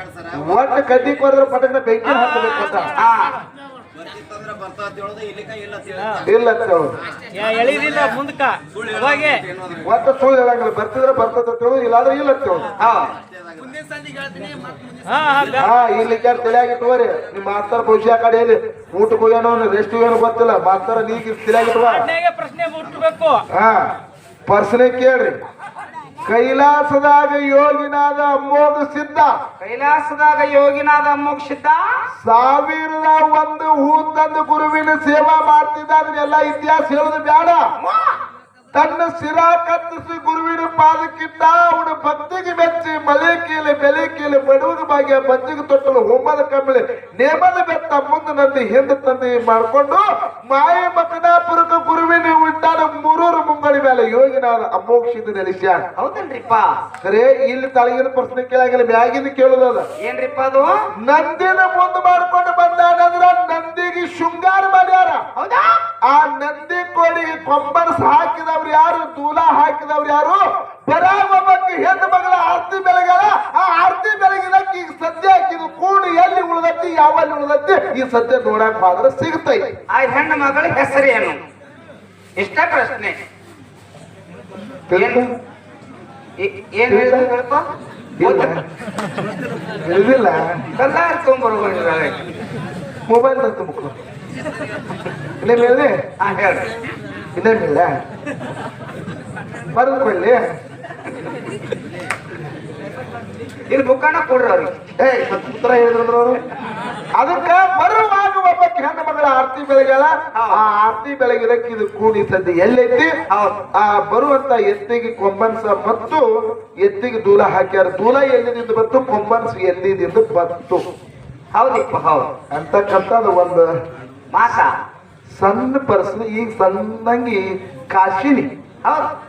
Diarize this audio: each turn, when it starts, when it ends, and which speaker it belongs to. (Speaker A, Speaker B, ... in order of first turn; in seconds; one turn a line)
Speaker A: 0.3-2.9
Speaker B: 2.9-3.4
Speaker A: 6.2-6.9
Speaker C: 7.3-9.4
Speaker B: 8.9-9.3
Speaker A: 9.8-12.7
Speaker B: 12.8-13.2
Speaker C: 15.1-15.5
Speaker A: 15.5-22.1
Speaker C: 22.2-23.4
Speaker A: 23.5-23.9
Speaker A: 24.5-25.4
Speaker A: 26.2-29.3
Speaker B: 29.6-31.8
Speaker A: 32.2-37.6
Speaker B: 37.8-38.1
Speaker A: 38.7-55.9
Speaker B: 56.0-56.7
Speaker A: 57.0-59.9
Speaker B: 60.0-60.7
Speaker A: 61.0-65.2
Speaker B: 65.3-65.8
Speaker A: 66.1-79.7
Speaker B: 79.9-81.4
Speaker B: 82.4-83.2
Speaker A: 84.9-85.3
Speaker B: 84.9-85.2
Speaker B: 86.4-87.7
Speaker A: 86.9-87.3
Speaker A: 88.2-88.6
Speaker B: 88.2-88.5
Speaker A: 89.8-90.6
Speaker B: 90.8-92.2
Speaker A: 93.1-93.9
Speaker A: 95.4-96.0
Speaker B: 96.2-96.7
Speaker A: 97.3-97.9
Speaker A: 99.7-100.4
Speaker B: 103.7-104.7
Speaker A: 105.0-106.4
Speaker A: 107.2-113.1
Speaker B: 110.3-110.6
Speaker B: 113.3-113.6
Speaker A: 113.7-116.2
Speaker A: 116.8-120.8
Speaker B: 121.5-122.3
Speaker A: 122.5-123.7
Speaker B: 124.3-124.7
Speaker A: 125.4-128.5
Speaker B: 128.8-129.1